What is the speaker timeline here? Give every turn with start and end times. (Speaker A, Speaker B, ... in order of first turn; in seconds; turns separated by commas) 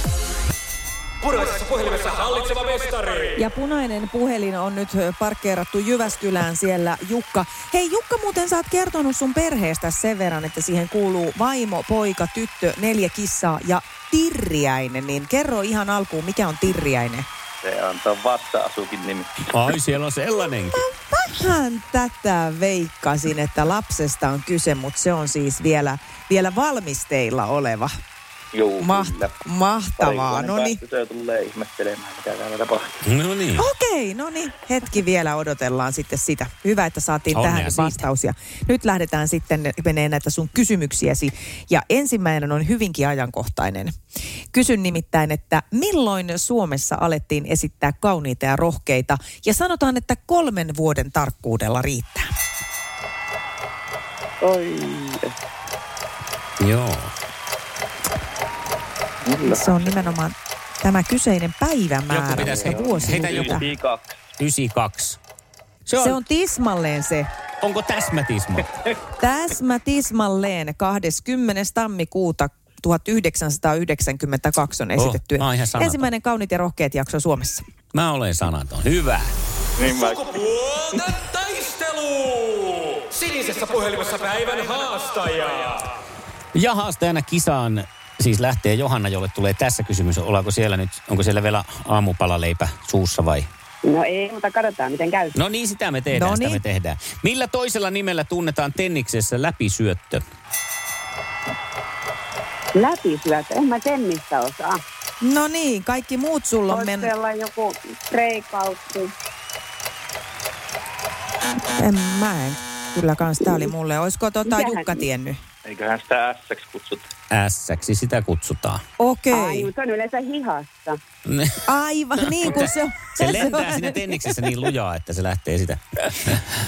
Speaker A: 1.2-3.4, Speaker B: 3.4-17.2, Speaker C: 17.6-19.4, Speaker D: 19.5-20.8, Speaker B: 20.7-27.9, Speaker C: 28.5-29.3, Speaker B: 28.8-30.8, Speaker C: 30.0-33.0, Speaker D: 33.0-33.7, Speaker B: 33.5-43.9, Speaker D: 37.3-38.0, Speaker B: 44.5-52.2, Speaker C: 54.4-55.1, Speaker D: 56.6-57.1, Speaker C: 59.2-60.1, Speaker B: 59.5-63.7, Speaker D: 62.1-63.7, Speaker C: 62.3-64.1, Speaker D: 64.4-65.2, Speaker D: 65.9-66.2, Speaker B: 66.0-67.3, Speaker D: 67.6-68.8, Speaker B: 69.2-77.6, Speaker D: 75.0-76.1, Speaker D: 77.9-79.3, Speaker C: 79.8-80.4, Speaker A: 79.8-85.9, Speaker D: 86.5-93.5, Speaker E: 93.8-95.3, Speaker D: 95.3-100.2, Speaker B: 96.1-96.6, Speaker E: 102.7-104.8, Speaker B: 105.2-107.1, Speaker E: 106.7-109.1, Speaker B: 111.8-115.4, Speaker E: 114.5-115.0, Speaker C: 115.7-117.0, Speaker D: 117.3-118.8, Speaker B: 119.0-119.7, Speaker E: 119.3-121.0, Speaker D: 121.2-121.6, Speaker B: 121.7-124.1, Speaker D: 122.2-126.4